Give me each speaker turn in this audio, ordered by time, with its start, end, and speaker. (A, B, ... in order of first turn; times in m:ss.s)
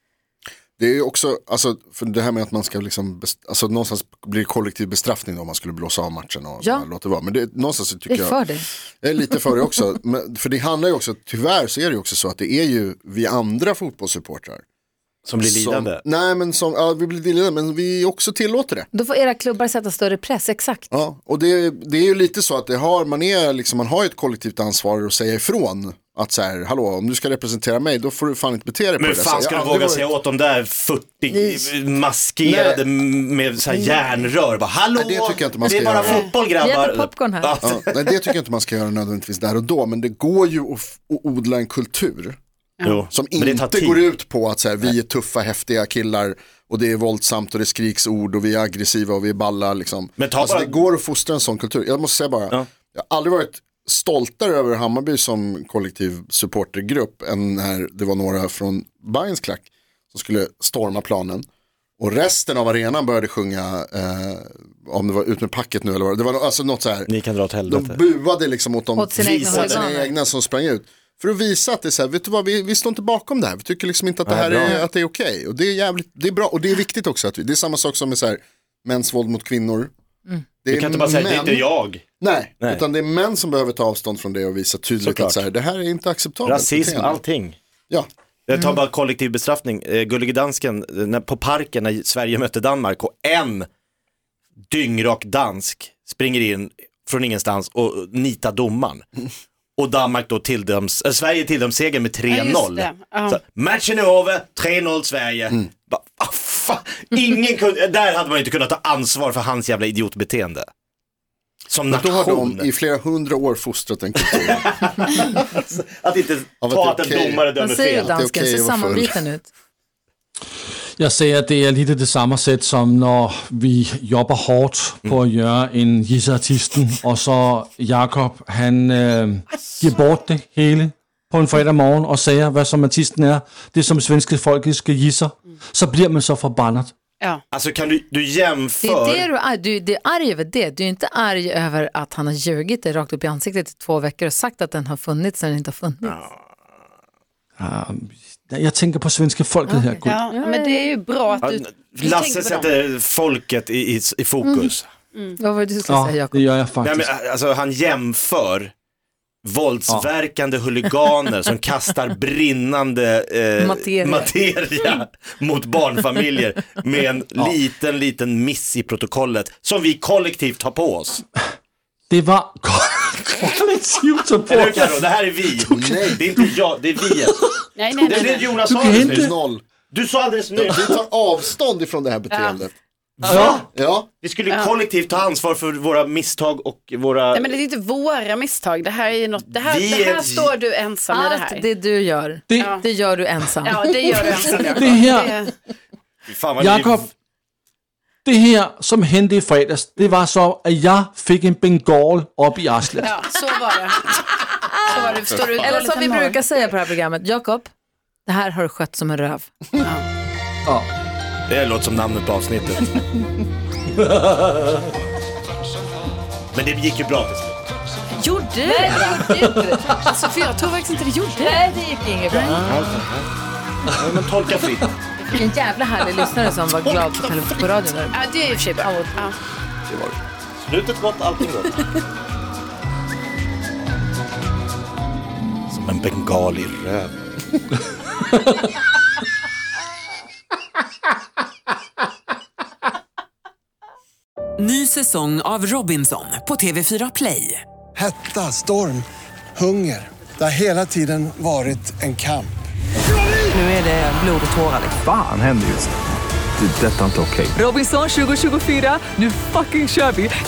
0:00.8-0:08.4 A
0:06.6-0:06.9 B
0:08.1-0:08.7 B
0:09.0-0:14.6 A
0:15.2-0:16.0 C
0:15.4-0:18.9 A
0:18.9-0:20.9 B
0:20.9-0:30.1 A
0:29.0-0:38.3 C
0:31.3-0:31.7 B
0:32.4-0:32.8 A
0:35.0-0:36.3 A
0:36.1-0:37.6 B
0:37.6-0:42.4 A
0:42.8-0:44.1 C
0:43.1-1:01.4 A
0:50.2-0:50.9 C
1:02.0-1:07.1 A
1:07.0-1:08.0 C
1:07.7-1:19.9 A
1:09.0-1:10.1 B
1:09.2-1:09.8 C
1:14.2-1:14.8 C
1:20.6-1:21.7 A
1:20.7-1:22.0 C
1:22.2-1:27.2 A
1:25.0-1:25.5 C
1:26.4-1:27.6 C
1:28.5-1:33.7 C
1:34.7-1:39.0 C
1:39.8-1:50.7 C
1:42.3-1:43.4 D
1:51.7-1:52.7 C
1:51.9-1:54.7 A
1:54.3-1:58.2 C
1:56.6-1:59.2 A
1:57.6-1:59.5 B
2:01.0-2:16.9 E
2:17.5-2:19.3 C
2:18.8-2:26.2 B
2:26.0-2:26.3 C
2:27.6-2:30.2 E
2:29.6-2:30.9 B
2:30.0-2:32.7 D
2:31.4-2:34.9 C
2:34.4-2:34.7 B
2:35.4-2:36.5 B
2:35.9-2:37.1 E
2:36.8-2:38.7 C
2:39.4-2:51.2 C
2:43.6-2:44.3 B
2:52.1-2:55.0 E
2:54.5-2:57.4 C
2:55.7-2:56.2 A
2:55.7-2:56.2 E
2:57.2-2:57.6 E
2:57.8-2:58.6 D
2:58.0-2:59.2 C
2:58.6-2:59.3 E
2:59.0-2:59.6 A
2:59.9-3:01.0 C
3:00.6-3:02.7 A
3:02.3-3:02.6 D
3:03.2-3:03.6 C
3:03.2-3:03.7 E
3:03.7-3:04.1 A
3:04.2-3:07.5 C
3:04.5-3:04.8 D
3:07.3-3:11.6 D
3:09.5-3:10.5 C
3:11.1-3:13.8 B
3:12.5-3:12.8 E
3:12.6-3:12.8 D
3:13.6-3:15.5 D
3:14.7-3:15.4 E
3:16.3-3:17.0 C
3:16.6-3:17.1 E
3:18.2-3:23.1 E
3:23.0-3:24.2 D
3:24.8-3:26.4 D
3:25.5-3:27.7 B
3:28.2-3:29.5 B
3:31.5-3:33.0 C
3:34.0-3:34.7 E
3:36.5-3:37.6 C
3:38.2-3:39.3 D
3:38.6-3:40.0 B
3:39.4-3:40.0 E
3:40.0-3:41.6 D
3:41.4-3:42.6 B
3:42.3-3:43.3 C
3:43.9-3:45.0 C
3:45.3-3:49.2 B
3:48.1-3:49.4 D
3:49.9-3:51.8 C
3:55.7-3:57.1 C
4:04.6-4:07.6 F
4:07.9-4:12.6 G
4:13.5-4:15.0 F
4:15.0-4:15.9 H
4:16.6-4:17.6 H
4:17.5-4:20.3 F